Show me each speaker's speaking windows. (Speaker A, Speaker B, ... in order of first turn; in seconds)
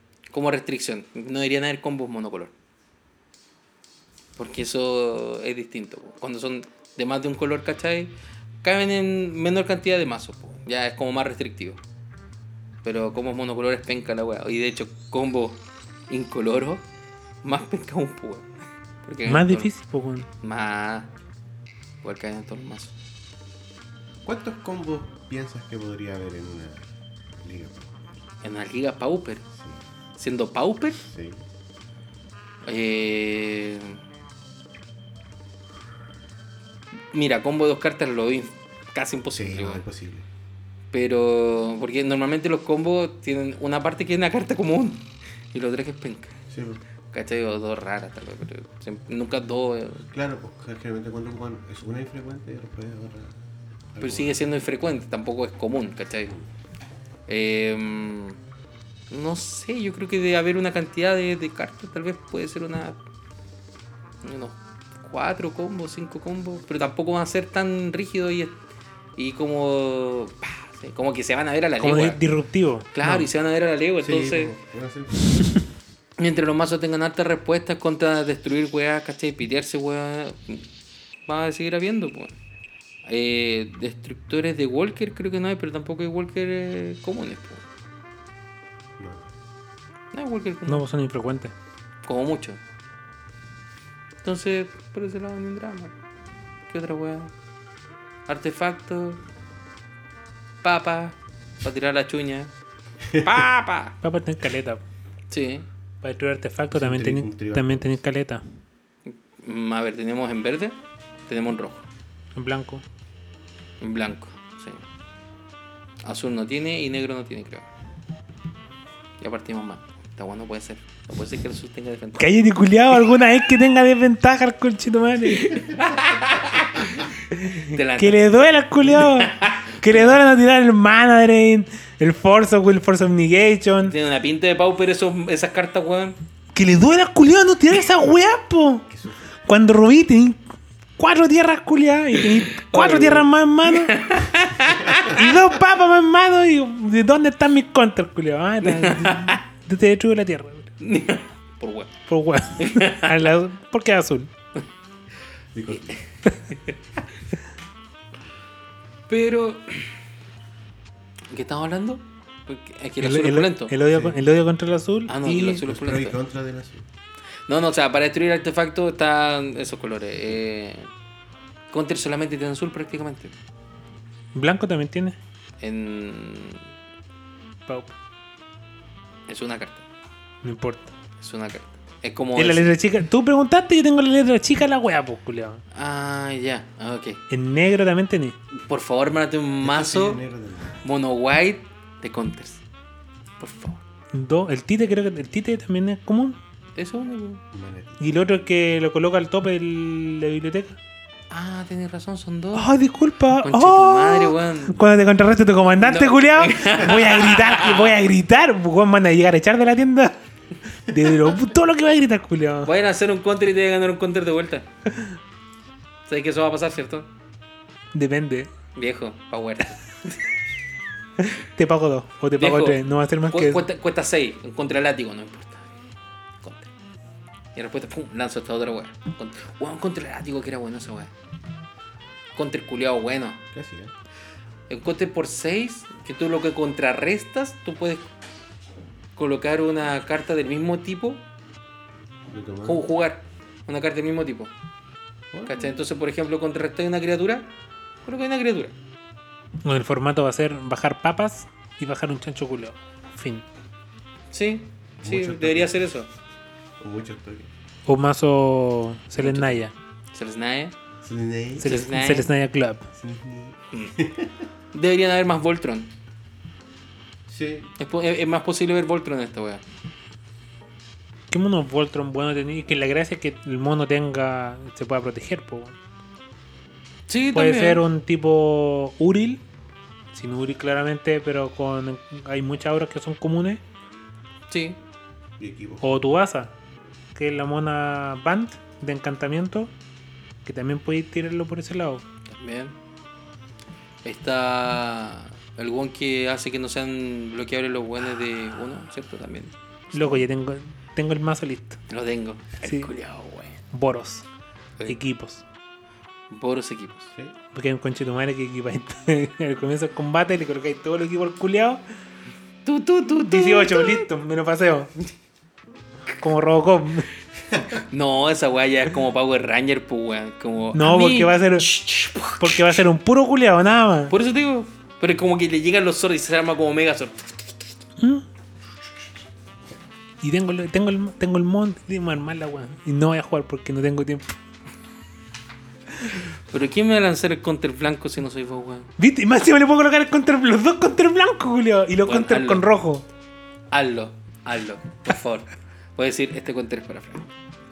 Speaker A: 0.3-2.5, 4.4-11.8, 12.8-16.9, 17.4-18.5, 19.0-19.7, 20.4-21.1, 22.0-22.9, 28.4-29.4, 30.2-31.0, 32.6-34.0, 37.1-39.8, 40.9-46.4, 47.1-50.0, 54.0-56.4, 57.3-58.4, 59.1-63.0, 64.2-68.6, 69.2-72.2, 72.9-74.5, 76.2-80.6, 81.3-82.4, 83.0-87.6, 90.1-90.8, 92.0-92.6, 94.2-95.9, 96.7-97.3, 98.3-99.2, 100.6-102.5, 103.1-104.0, 105.3-105.7, 109.1-111.9, 113.8-114.8, 116.0-117.7, 119.2-122.4, 125.3-128.3, 128.8-130.2, 133.8-136.2, 142.2-145.3, 148.6-149.4, 150.8-151.9, 152.6-153.2, 159.1-159.9, 161.3-163.7, 165.1-166.2, 167.5-170.9, 171.7-173.3, 175.6-176.7, 179.3-179.8, 181.2-182.7, 185.7-187.2, 188.6-190.2, 190.8-192.6, 193.4-193.8, 196.8-197.4, 201.3-202.7, 203.4-204.8, 205.8-208.0, 212.6-214.7, 216.1-217.1, 218.8-220.2, 222.4-225.7, 226.4-226.7, 227.6-231.1, 232.3-233.4, 234.7-238.1, 239.2-241.2, 242.6-244.5, 245.5-247.5, 248.1-248.8, 254.3-256.1, 259.2-259.6, 260.1-260.8, 261.6-262.3, 264.7-265.9, 267.8-269.6, 277.1-277.8, 284.5-284.8, 292.3-292.8, 294.0-299.5, 301.9-303.6, 306.3-307.1, 312.6-314.1, 317.9-322.8, 324.1-327.6, 336.1-338.9, 342.1-342.7, 343.7-347.3
Speaker B: 19.2-20.3, 71.8-73.3, 90.7-91.5, 104.0-104.8, 106.0-108.4, 112.3-112.8, 122.2-125.6, 127.3-133.9, 136.5-138.9, 139.5-140.4, 141.0-144.2, 145.0-150.7, 152.1-154.3, 163.0-165.6, 174.3-175.2, 177.7-177.9, 180.4-180.9, 182.4-185.6, 187.3-188.4, 194.1-196.4, 198.0-200.8, 202.5-210.2, 210.9-212.7, 217.9-218.5, 221.2-223.6, 249.6-253.4, 257.9-259.7, 261.6-262.9, 271.3-275.8, 277.3-279.4, 280.1-283.6, 285.8-286.5, 287.1-289.7, 290.4-292.0, 299.9-301.8, 302.6-302.9, 303.7-304.2, 304.9-305.4, 307.6-311.8, 313.3-314.9, 316.2-317.1, 320.7-321.8, 322.3-324.1, 328.0-328.2, 330.2-334.4, 339.0-343.1
Speaker C: 24.2-28.1, 29.5-29.8, 31.0-31.4, 39.3-40.3, 46.5-46.8, 50.0-53.4, 53.9-54.4, 74.0-75.6, 89.0-89.3, 106.7-108.0, 138.9-139.3, 155.5-156.0, 163.9-164.2, 165.7-166.8, 189.6-190.8, 197.5-198.0, 233.5-233.9, 242.3-242.8, 245.3-245.8, 255.0-255.8, 256.8-257.5, 261.0-261.7, 262.9-264.4, 267.3-267.7, 285.4-285.9